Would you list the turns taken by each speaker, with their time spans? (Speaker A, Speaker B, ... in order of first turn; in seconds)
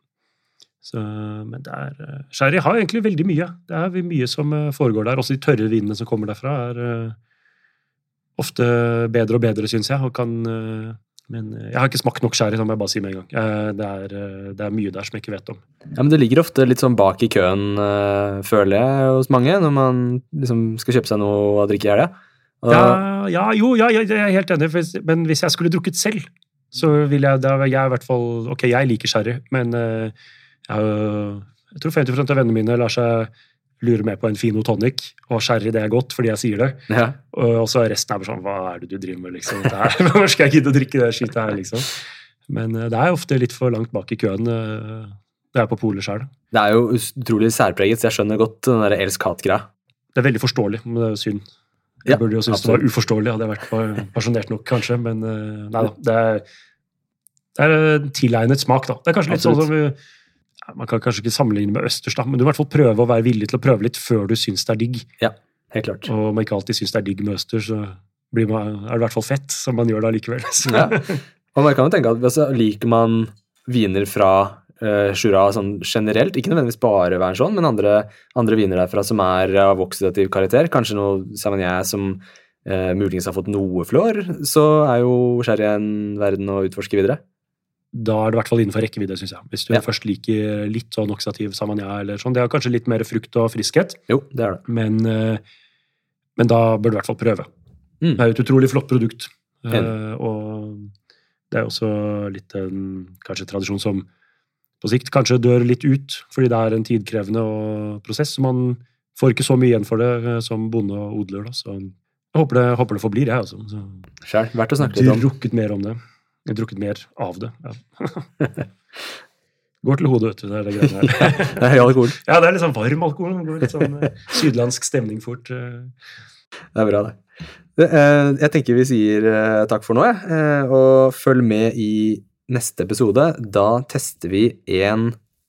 Speaker A: 0.8-7.2, 8.4-15.6, 22.7-30.1, 30.7-46.3, 50.1-51.4, 52.0-56.4, 57.5-60.0, 60.6-65.1, 66.0-71.2, 87.9-94.0, 94.7-95.4, 96.4-97.5, 98.2-100.9, 101.5-104.1, 104.8-114.0, 114.8-118.3, 119.8-125.9
Speaker B: 15.9-23.0, 36.9-37.1, 46.5-49.6, 52.0-52.8, 59.3-59.6, 65.2-66.1, 70.7-71.0, 71.5-87.2, 94.1-94.6, 114.2-115.2, 121.0-122.2, 126.7-127.2, 127.7-135.2